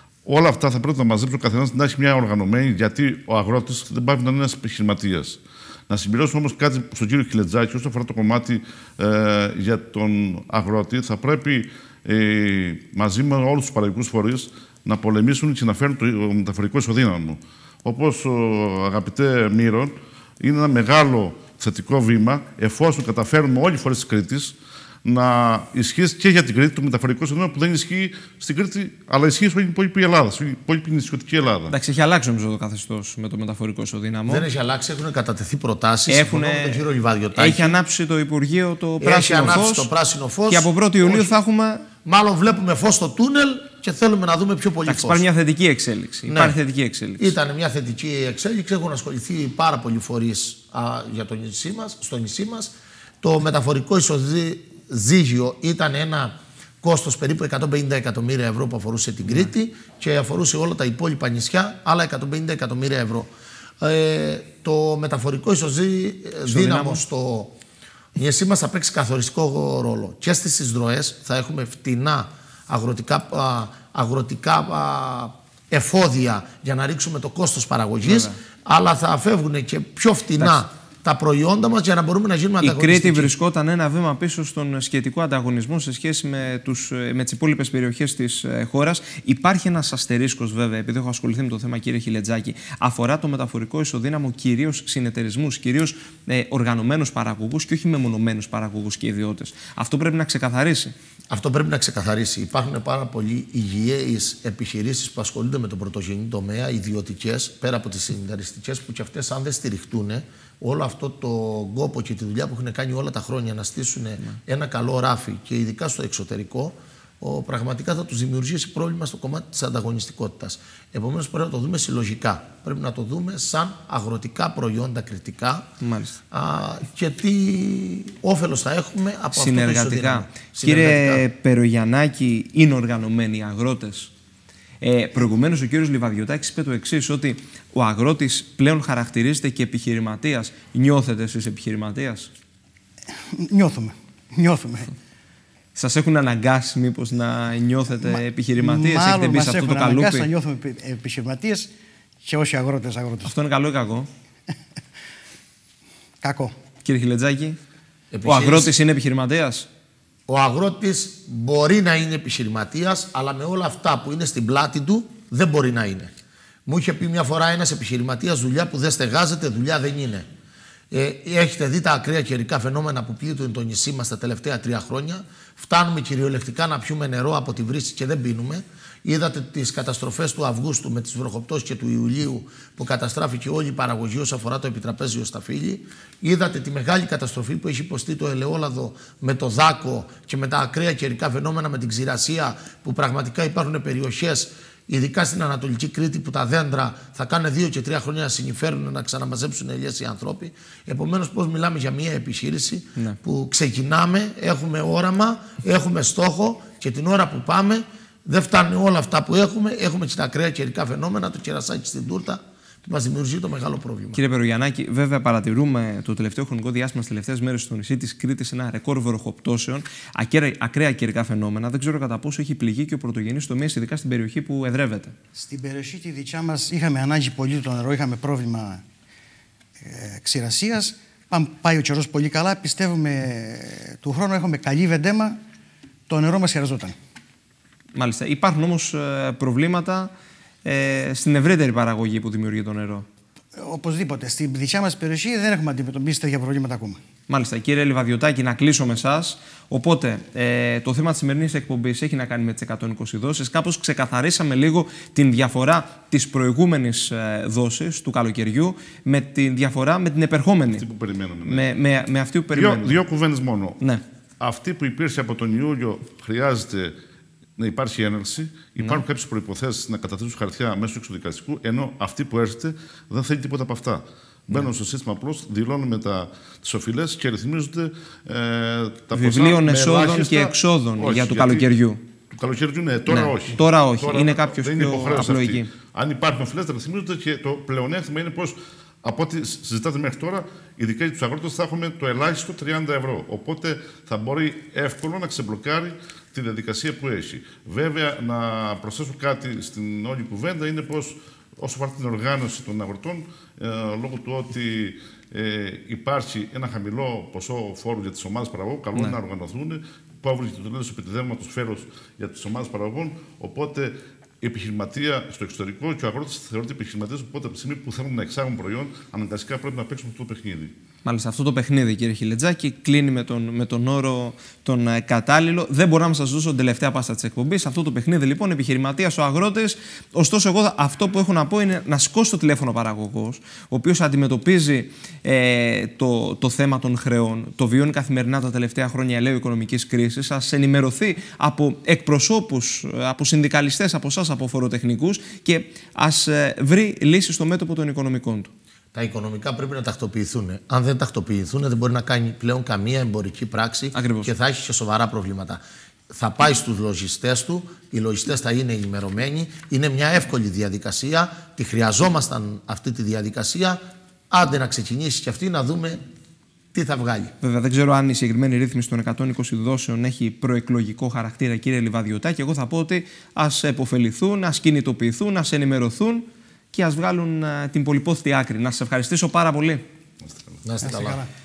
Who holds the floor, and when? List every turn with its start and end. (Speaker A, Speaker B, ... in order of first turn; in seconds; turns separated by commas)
Speaker A: 0.2-31.7, Speaker B: 31.7-34.5, Speaker C: 34.3-37.8, Speaker B: 36.1-36.8, Speaker B: 37.3-39.9, Speaker C: 39.0-41.3, Speaker B: 40.5-41.9, Speaker C: 42.0-45.2, Speaker B: 44.9-47.3, Speaker C: 46.3-46.6, Speaker C: 47.2-63.3, Speaker C: 63.8-67.5, Speaker B: 66.4-67.0, Speaker C: 68.1-83.3, Speaker B: 78.0-78.4, Speaker B: 80.4-80.6, Speaker B: 82.6-100.9, Speaker C: 101.3-125.7, Speaker B: 125.8-126.2, Speaker C: 126.3-131.2, Speaker B: 129.3-134.1, Speaker B: 134.8-142.3, Speaker D: 143.2-144.9, Speaker B: 145.7-150.3, Speaker D: 148.0-151.7, Speaker D: 152.2-153.3, Speaker B: 153.2-154.1, Speaker D: 156.2-156.5, Speaker B: 156.8-157.6, Speaker C: 158.1-158.7, Speaker B: 158.2-159.7, Speaker C: 160.3-166.1, Speaker C: 166.7-170.2, Speaker C: 170.9-214.2, Speaker B: 214.1-225.1, Speaker D: 225.3-228.8, Speaker D: 229.8-235.4, Speaker D: 236.1-236.9, Speaker B: 237.9-240.1, Speaker B: 240.6-243.1, Speaker D: 243.5-247.0, Speaker B: 247.3-260.8, Speaker A: 260.8-261.6, Speaker B: 261.4-263.0, Speaker A: 262.5-263.8, Speaker A: 264.4-266.9, Speaker A: 267.6-281.7, Speaker B: 268.8-269.0, Speaker B: 279.1-282.0, Speaker A: 282.3-320.7, Speaker B: 283.1-285.7, Speaker B: 321.0-348.5, Speaker C: 348.9-366.0, Speaker B: 353.9-354.3, Speaker C: 366.7-367.3, Speaker B: 367.4-379.8, Speaker A: 380.2-380.6, Speaker C: 380.6-381.2, Speaker D: 380.8-381.3